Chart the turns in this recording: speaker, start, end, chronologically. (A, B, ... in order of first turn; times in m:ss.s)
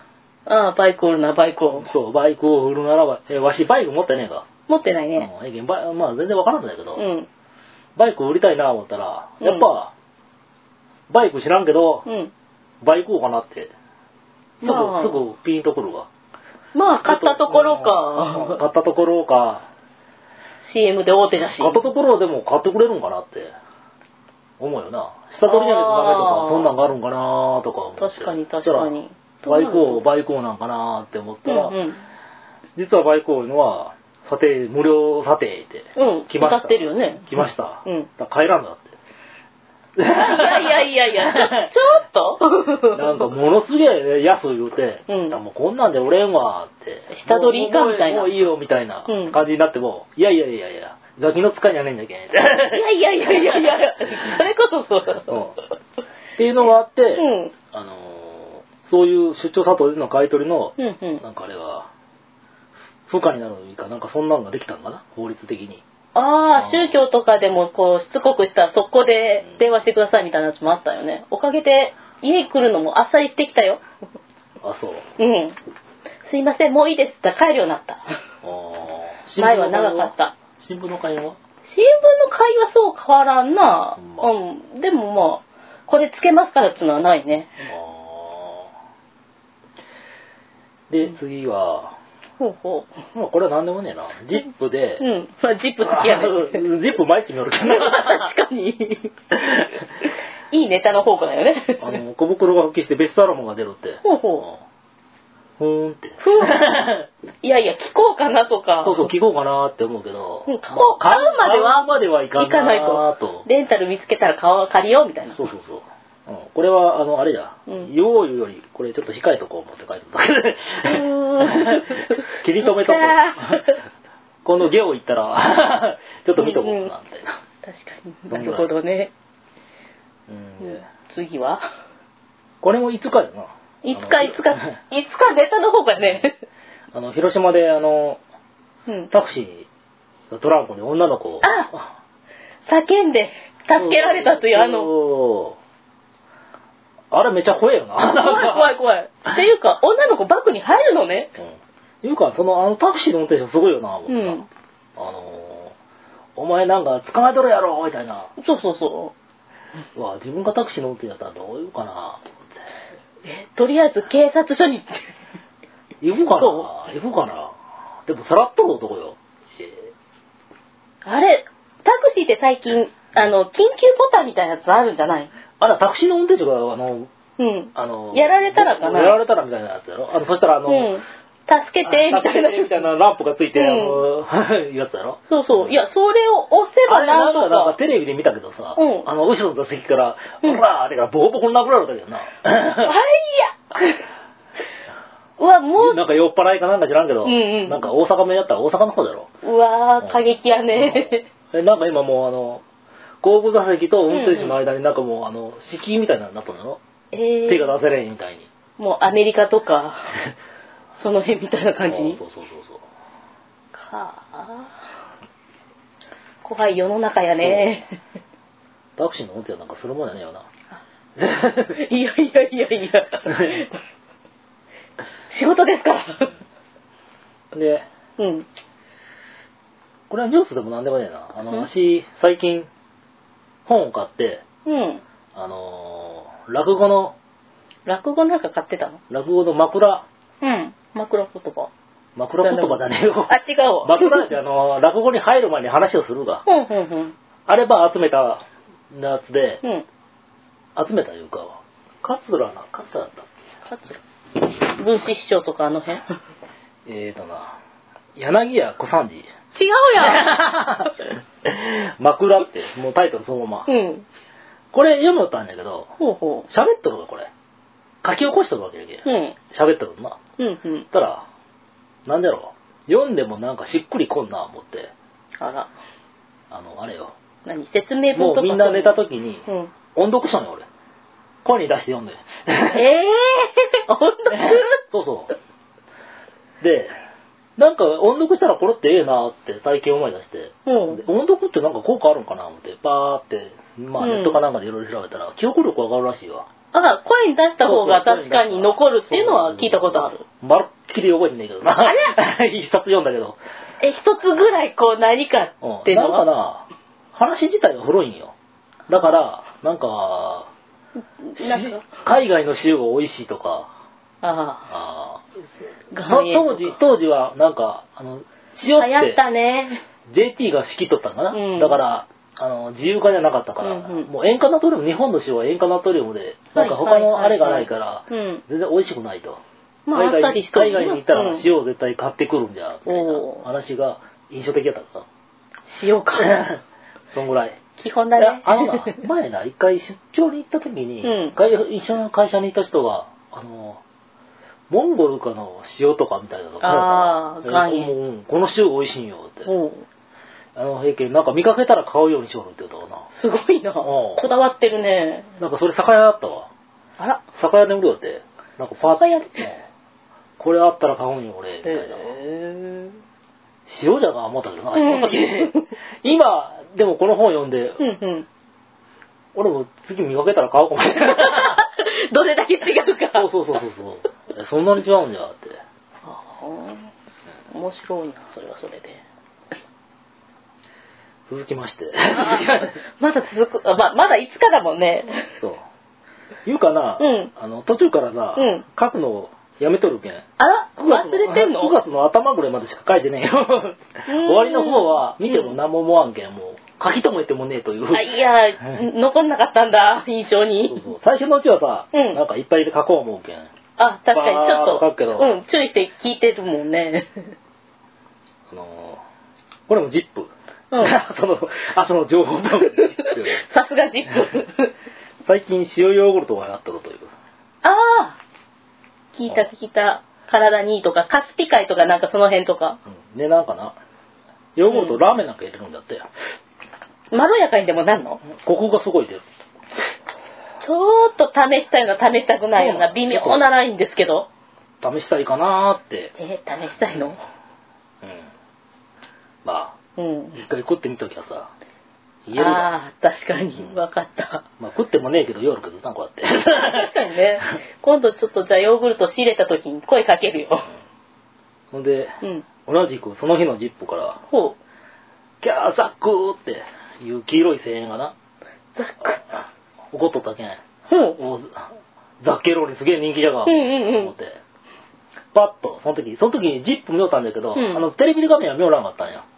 0:00.4-0:01.9 A
0:01.8-0:04.5 B
0:04.7-0:05.3 A
0:05.2-0:07.0 B
0:07.0-0:07.3 A
0:08.0-0:09.9 B
0:09.4-0:09.7 A
0:11.1-0:12.1 B
0:12.0-0:12.3 A
0:12.8-0:13.7 B
0:14.6-0:16.1 B
0:14.6-0:15.2 A
0:16.7-0:18.6 A
0:17.0-0:19.7 B
0:20.6-0:21.8 A
0:21.4-0:23.5 B
0:24.6-0:28.9 B
0:25.4-0:26.7 A
0:28.0-0:30.0 A
0:29.4-0:31.8 B
0:31.4-0:32.0 A
0:32.8-0:39.0 B
0:36.0-0:38.1 A
0:40.0-0:41.7 B
0:40.1-0:43.2 A
0:42.9-0:54.3 B
0:45.1-0:45.4 A
0:47.1-0:48.3 A
0:49.1-0:49.4 A
0:52.6-0:55.3 A
0:55.3-0:55.6 B
0:56.4-1:01.9 B
0:57.2-0:57.5 A
1:00.8-1:01.2 A
1:03.1-1:05.8 B
1:06.1-1:13.8 A
1:06.5-1:07.0 B
1:14.6-1:15.0 B
1:15.2-1:15.6 A
1:16.2-1:18.2 A
1:18.4-1:21.4 B
1:19.4-1:20.3 A
1:21.6-1:27.6 A
1:24.0-1:24.3 B
1:27.6-1:28.7 B
1:30.9-1:32.0 B
1:32.4-1:32.9 A
1:33.1-1:35.0 B
1:35.0-1:36.6 A
1:35.8-1:38.3 B
1:37.6-1:39.1 A
1:39.4-1:39.7 B
1:40.5-1:42.0 A
1:41.8-1:44.6 B
1:44.0-1:44.4 A
1:45.6-1:47.1 B
1:46.2-1:46.7 A
1:47.4-1:49.1 A
1:48.8-1:53.4 B
1:50.5-1:55.4 A
1:55.3-2:03.8 B
2:00.8-2:03.8 A
2:04.4-2:07.4 B
2:06.4-2:06.9 A
2:07.6-2:09.1 A
2:08.3-2:08.7 B
2:10.3-2:10.9 B
2:10.6-2:11.6 A
2:12.6-2:14.8 B
2:13.8-2:16.4 A
2:16.0-2:16.3 B
2:16.9-2:18.2 B
2:19.1-2:19.7 B
2:20.3-2:21.9 B
2:21.4-2:21.7 A
2:22.6-2:24.9 A
2:23.7-2:25.6 B
2:27.1-2:28.7 B
2:28.0-2:31.3 A
2:31.4-2:34.4 B
2:34.1-2:34.4 A
2:35.0-2:35.7 B
2:36.4-2:38.3 B
2:38.4-2:39.1 A
2:39.9-2:42.4 B
2:43.2-2:45.1 A
2:46.0-2:47.5 B
2:46.3-2:46.7 A
2:48.1-2:49.9 B
2:51.0-2:55.3 A
2:55.6-2:57.1 B
2:57.4-2:59.2 A
2:57.7-3:01.0 B
3:00.6-3:02.8 A
3:01.8-3:05.8 B
3:03.5-3:04.0 A
3:05.3-3:07.8 A
3:06.8-3:12.9 B
3:08.8-3:09.1 A
3:12.8-3:14.0 A
3:15.4-3:16.0 A
3:15.8-3:19.3 B
3:17.2-3:17.9 A
3:19.4-3:21.3 A
3:20.0-3:22.6 B
3:23.2-3:26.8 B
3:24.1-3:24.6 A
3:27.1-3:27.7 A
3:27.4-3:28.5 B
3:28.8-3:30.1 A
3:30.9-3:32.2 A
3:31.8-3:32.8 B
3:33.7-3:34.7 A
3:36.4-3:38.0 A
3:37.4-3:37.8 B
3:39.0-3:40.5 B
3:41.2-3:41.8 B
3:41.6-3:43.8 A
3:43.3-3:43.6 B
3:45.3-3:46.3 A
3:47.5-3:47.8 B
3:48.2-3:48.5 A
3:50.1-3:52.7 B
3:53.6-3:54.4 B
3:54.6-3:55.0 A
3:55.3-3:57.2 B
3:57.8-3:59.0 A
3:59.1-4:00.0 B
4:00.4-4:01.7 A
4:02.2-4:06.4 B
4:02.4-4:04.3 A
4:06.4-4:07.1 A
4:07.5-4:09.6 B
4:10.8-4:13.3 B
4:13.6-4:16.1 A
4:16.8-4:17.6 B
4:18.2-4:19.3 B
4:19.5-4:20.3 A
4:20.0-4:23.7 B
4:23.7-4:24.0 A
4:24.7-4:25.9 B
4:26.0-4:26.5 A
4:26.5-4:27.3 B
4:28.0-4:30.2 B
4:29.0-4:29.4 A
4:30.4-4:30.9 A
4:30.9-4:31.2 B
4:32.0-4:34.9 B
4:35.4-4:35.7 A
4:36.5-4:37.1 B
4:37.4-4:39.7 A
4:38.1-4:40.6 B
4:41.4-4:42.9 B
4:42.7-4:44.8 A
4:44.3-4:45.3 B
4:46.6-4:46.9 B
4:47.6-4:56.5 B
4:50.6-4:51.0 A
4:54.0-4:54.4 A
4:56.7-5:00.2 A
4:57.6-5:03.4 B
5:01.7-5:02.2 A
5:03.8-5:06.2 A
5:05.6-5:08.3 B
5:08.9-5:10.5 B
5:11.3-5:11.8 A
5:11.3-5:13.7 B
5:14.2-5:14.7 A
5:14.7-5:15.5 B
5:15.9-5:16.8 A
5:16.0-5:19.2 B
5:18.7-5:19.8 A
5:20.1-5:29.4 B
5:21.3-5:21.8 A
5:23.6-5:24.1 A
5:26.5-5:28.4 A
5:29.9-5:31.5 A
5:29.9-5:35.1 B
5:32.8-5:33.4 A
5:35.7-5:36.4 A
5:36.2-5:36.6 B
5:37.1-5:37.6 B
5:37.8-5:39.0 A
5:38.2-5:43.8 B
5:41.0-5:41.4 A
5:44.7-5:49.5 B
5:46.6-5:47.9 A
5:49.4-5:49.8 A
5:50.6-5:53.1 B
5:53.1-5:55.3 A
5:53.8-5:54.3 B
5:55.4-5:56.5 B
5:57.0-5:57.2 A
5:57.3-5:59.6 B
5:58.8-5:59.4 A
6:00.4-6:02.1 B
6:01.6-6:03.0 A
6:03.7-6:07.8 B
6:04.7-6:05.7 A
6:07.8-6:08.3 A
6:09.3-6:11.6 B
6:11.0-6:13.3 A
6:13.1-6:15.6 B
6:16.0-6:16.9 A
6:17.5-6:19.0 A
6:21.3-6:22.8 B
6:22.1-6:25.3 A
6:26.4-6:30.3 B
6:27.0-6:27.3 A
6:28.4-6:28.6 A
6:30.4-6:31.7 A
6:30.8-6:38.8 B
6:34.1-6:35.6 A
6:37.9-6:40.8 A
6:40.7-6:43.5 B
6:41.9-6:42.2 A
6:43.8-6:47.3 A
6:44.1-6:45.3 B
6:48.5-6:49.0 B
6:49.7-6:53.4 B
6:50.7-6:51.0 A
6:52.6-6:54.7 A
6:55.2-6:57.1 B
6:57.6-6:58.2 A
6:59.1-7:02.8 A
7:02.9-7:03.8 B
7:04.6-7:06.0 B
7:04.7-7:05.0 A
7:07.1-7:08.2 A
7:08.2-7:09.2 B
7:10.6-7:14.3 A
7:12.5-7:13.4 B
7:14.8-7:16.1 B
7:16.2-7:17.2 A
7:18.0-7:18.3 B
7:19.4-7:19.8 B
7:20.0-7:20.4 A
7:20.4-7:21.5 B
7:22.2-7:22.7 B
7:22.4-7:24.4 A
7:24.6-7:26.9 B
7:26.5-7:30.7 A
7:31.7-7:34.2 B
7:32.2-7:32.5 A
7:34.3-7:34.6 A
7:35.4-7:38.1 B
7:38.7-7:39.2 A
7:39.9-7:40.6 B
7:40.9-7:41.2 A
7:41.1-7:44.4 B
7:43.4-7:44.1 A
7:45.3-7:49.2 B
7:47.5-7:47.8 A